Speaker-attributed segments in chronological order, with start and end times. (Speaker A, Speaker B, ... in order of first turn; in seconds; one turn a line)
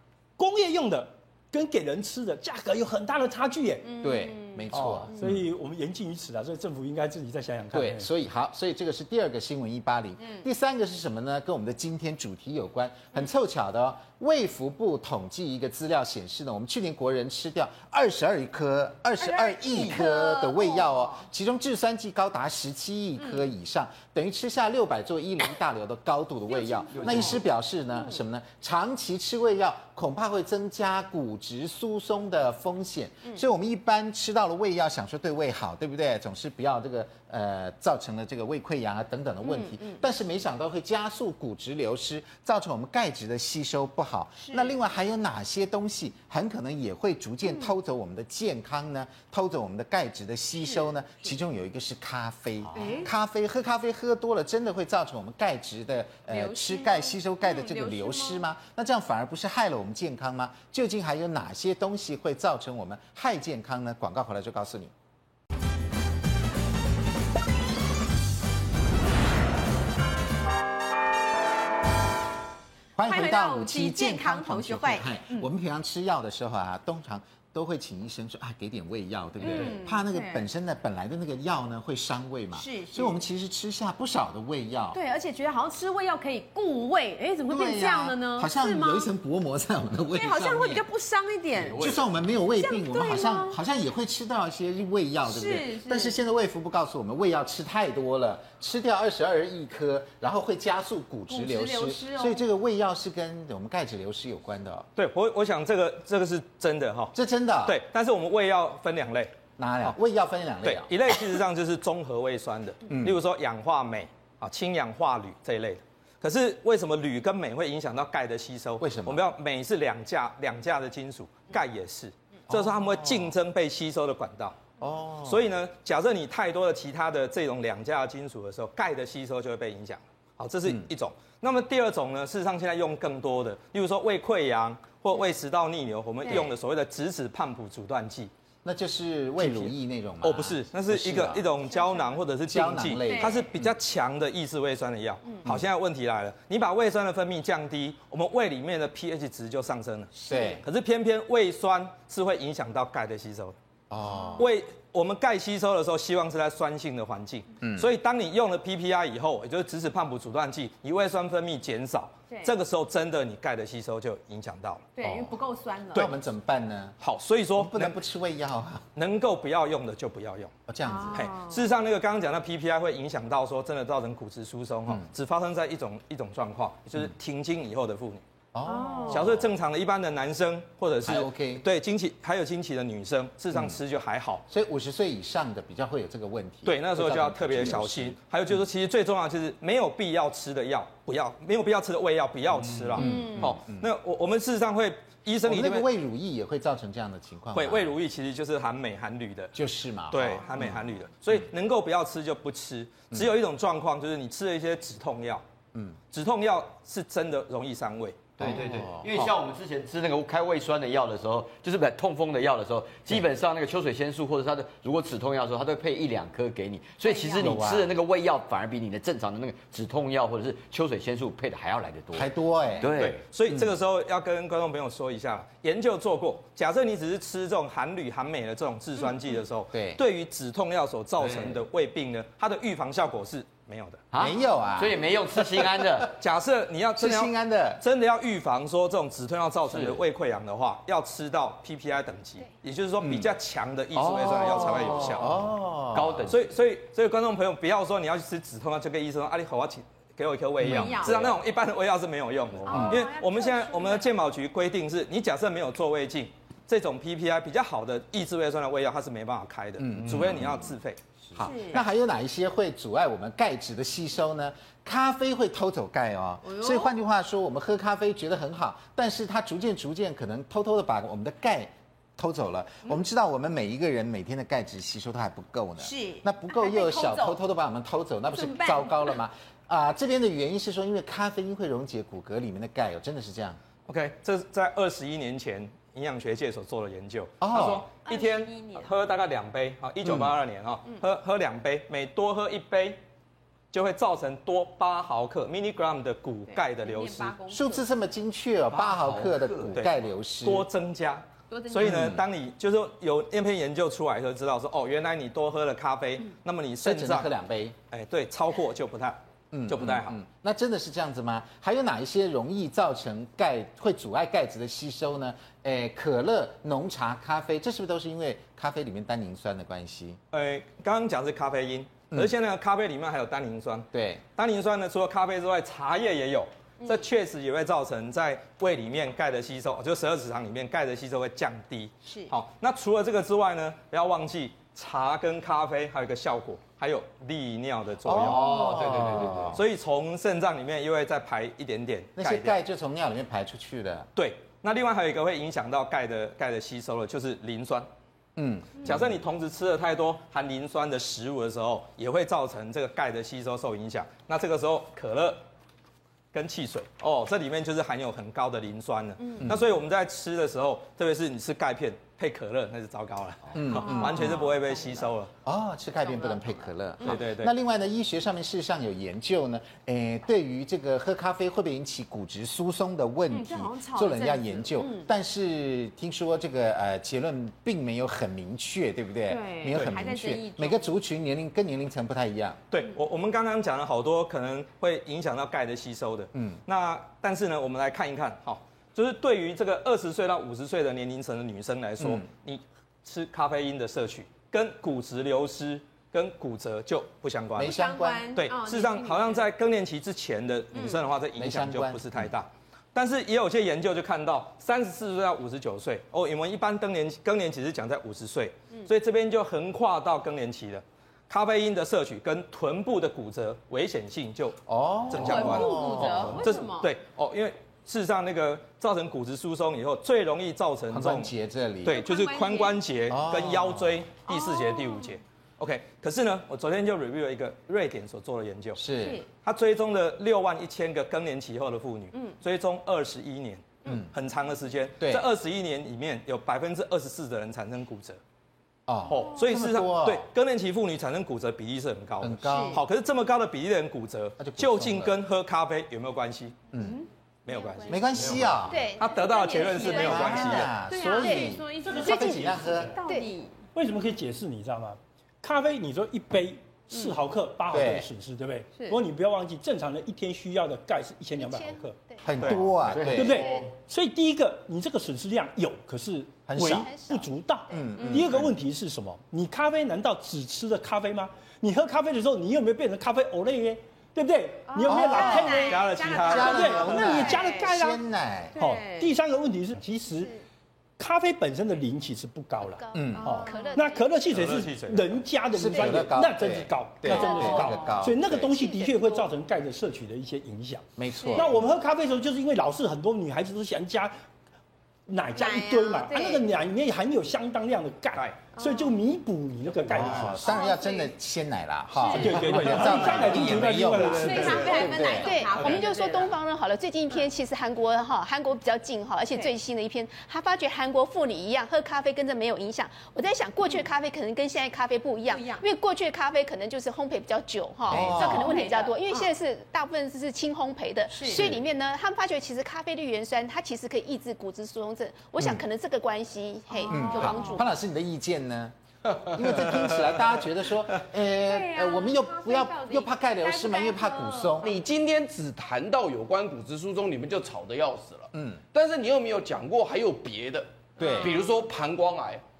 Speaker A: 0.4-4.0
Speaker B: 3.8-4.7
Speaker C: 4.0-5.3
Speaker D: 4.8-5.0
Speaker A: 5.1-8.1
Speaker C: 7.7-64.9
Speaker B: 19.2-21.2
Speaker B: 23.2-23.4
Speaker B: 26.5-27.4
Speaker D: 26.9-27.4
Speaker B: 27.9-28.2
Speaker B: 39.4-40.0
Speaker B: 52.7-53.1
Speaker B: 56.3-58.4
Speaker C: 73.0-85.0
Speaker B: 73.0-75.5
Speaker B: 79.4-80.4
Speaker B: 82.5-83.2
Speaker B: 84.9-89.1
Speaker C: 87.5-90.8
Speaker B: 90.1-91.8
Speaker D: 91.5-92.0
Speaker C: 91.8-104.8
Speaker B: 92.6-93.6
Speaker B: 95.2-96.2
Speaker B: 101.3-102.4
Speaker E: 105.0-107.1
Speaker C: 107.1-107.8
Speaker E: 107.7-110.0
Speaker C: 109.6-110.9
Speaker E: 110.6-124.6
Speaker C: 112.9-113.2
Speaker C: 118.8-119.2
Speaker C: 122.5-123.3
Speaker C: 124.8-125.5
Speaker E: 125.2-138.3
Speaker B: 136.2-136.5
Speaker C: 138.6-141.5
Speaker E: 139.4-153.5
Speaker C: 142.4-143.7
Speaker B: 143.0-143.4
Speaker C: 150.2-150.6
Speaker B: 150.3-150.6
Speaker C: 153.9-154.5
Speaker B: 154.1-154.4
Speaker E: 154.4-164.9
Speaker C: 157.6-157.9
Speaker B: 164.9-166.1
Speaker C: 165.0-165.3
Speaker C: 165.9-166.9
Speaker E: 167.0-167.9
Speaker C: 167.5-168.8
Speaker E: 168.9-170.5
Speaker C: 170.7-171.3
Speaker B: 170.8-171.6
Speaker E: 171.1-178.2
Speaker C: 178.5-179.5
Speaker B: 178.6-179.2
Speaker E: 179.1-184.4
Speaker C: 181.0-181.6
Speaker C: 184.5-188.2
Speaker E: 186.6-195.9
Speaker C: 192.6-193.9
Speaker B: 193.0-193.5
Speaker C: 195.4-197.9
Speaker E: 197.5-199.5
Speaker C: 199.5-200.8
Speaker E: 200.1-205.4
Speaker E: 206.1-208.5
Speaker C: 208.4-209.3
Speaker D: 208.4-223.2
Speaker B: 217.0-217.4
Speaker C: 217.1-217.9
Speaker C: 222.1-222.9
Speaker E: 222.9-234.0
Speaker C: 229.7-230.0
Speaker D: 231.2-231.6
Speaker D: 234.1-236.1
Speaker C: 234.2-236.1
Speaker E: 236.1-245.3
Speaker C: 237.0-237.8
Speaker D: 239.7-240.0
Speaker C: 243.0-243.3
Speaker D: 243.9-246.4
Speaker C: 244.0-246.3
Speaker E: 246.3-261.0
Speaker C: 250.7-251.1
Speaker B: 250.7-251.3
Speaker B: 252.7-254.1
Speaker C: 252.7-253.1
Speaker C: 259.8-260.6
Speaker C: 261.3-283.6
Speaker B: 261.4-261.8
Speaker B: 266.4-266.9
Speaker B: 275.8-277.4
Speaker B: 278.3-279.1
Speaker E: 283.9-293.0
Speaker C: 287.4-287.9
Speaker B: 288.1-288.9
Speaker C: 290.0-290.3
Speaker E: 293.7-297.4
Speaker B: 296.5-297.9
Speaker C: 297.5-300.7
Speaker D: 298.7-299.7
Speaker E: 299.7-307.3
Speaker B: 301.5-302.0
Speaker C: 301.8-302.2
Speaker C: 306.8-307.8
Speaker E: 307.9-310.2
Speaker C: 309.5-320.2
Speaker E: 320.3-338.5
Speaker C: 323.9-324.2
Speaker B: 332.1-332.3
Speaker C: 338.0-339.6
Speaker F: 338.2-339.6
Speaker D: 338.5-339.1
Speaker E: 339.5-342.6
Speaker C: 342.1-344.1
Speaker E: 344.1-347.9
Speaker C: 348.4-349.1
Speaker E: 348.8-355.4
Speaker E: 356.3-365.3
Speaker B: 359.2-359.5
Speaker C: 359.4-359.7
Speaker C: 363.5-364.5
Speaker B: 363.7-365.1
Speaker C: 365.4-382.6
Speaker B: 366.0-367.2
Speaker E: 367.0-367.5
Speaker B: 373.3-375.1
Speaker B: 379.3-380.9
Speaker E: 382.7-397.8
Speaker C: 392.0-392.2
Speaker C: 397.6-398.3
Speaker B: 397.6-399.4
Speaker E: 398.3-421.3
Speaker B: 400.7-401.0
Speaker C: 401.4-402.3
Speaker C: 414.7-416.5
Speaker B: 415.1-416.9
Speaker C: 420.9-422.0
Speaker E: 421.8-428.9
Speaker B: 421.9-422.8
Speaker C: 423.1-424.0
Speaker B: 424.3-425.1
Speaker C: 428.8-429.2
Speaker B: 429.0-429.2
Speaker E: 429.4-438.2
Speaker C: 435.0-435.2
Speaker C: 438.9-440.3
Speaker E: 439.1-446.7
Speaker C: 442.2-442.8
Speaker B: 442.5-442.8
Speaker C: 444.4-445.2
Speaker C: 446.7-447.0
Speaker B: 446.8-447.9
Speaker E: 447.4-450.7
Speaker C: 447.9-448.8
Speaker D: 448.1-448.6
Speaker B: 448.7-453.5
Speaker G: 448.7-450.5
Speaker C: 449.9-452.9
Speaker G: 451.1-451.5
Speaker A: 451.9-452.5
Speaker G: 453.0-453.3
Speaker A: 453.7-462.0
Speaker C: 457.7-458.1
Speaker G: 461.4-462.3
Speaker C: 462.2-463.5
Speaker E: 462.4-462.6
Speaker D: 462.9-463.6
Speaker A: 463.1-478.0
Speaker C: 466.5-466.9
Speaker G: 466.6-467.3
Speaker C: 467.7-468.4
Speaker B: 468.0-468.2
Speaker B: 474.7-477.7
Speaker C: 474.8-475.6
Speaker E: 475.5-476.9
Speaker C: 476.2-478.6
Speaker B: 478.5-479.1
Speaker A: 478.6-480.3
Speaker A: 481.0-494.1
Speaker G: 482.6-484.1
Speaker C: 482.9-483.4
Speaker B: 483.2-483.8
Speaker E: 484.3-485.2
Speaker C: 485.5-488.5
Speaker G: 487.1-489.2
Speaker B: 487.2-487.8
Speaker C: 491.0-491.6
Speaker A: 495.1-500.6
Speaker B: 495.3-496.4
Speaker B: 498.6-498.9
Speaker C: 499.9-505.4
Speaker B: 500.4-501.0
Speaker G: 500.6-501.0
Speaker B: 501.9-503.3
Speaker A: 502.1-504.8
Speaker E: 503.1-504.9
Speaker B: 504.2-506.4
Speaker G: 504.9-527.7
Speaker E: 505.5-505.9
Speaker B: 515.3-515.6
Speaker C: 517.9-518.6
Speaker B: 518.1-519.3
Speaker B: 521.1-521.4
Speaker C: 521.3-521.6
Speaker C: 525.4-525.6
Speaker B: 526.7-527.6
Speaker C: 526.9-534.7
Speaker B: 531.4-534.8
Speaker F: 534.6-542.4
Speaker C: 538.3-538.6
Speaker C: 541.0-541.3
Speaker B: 541.0-541.3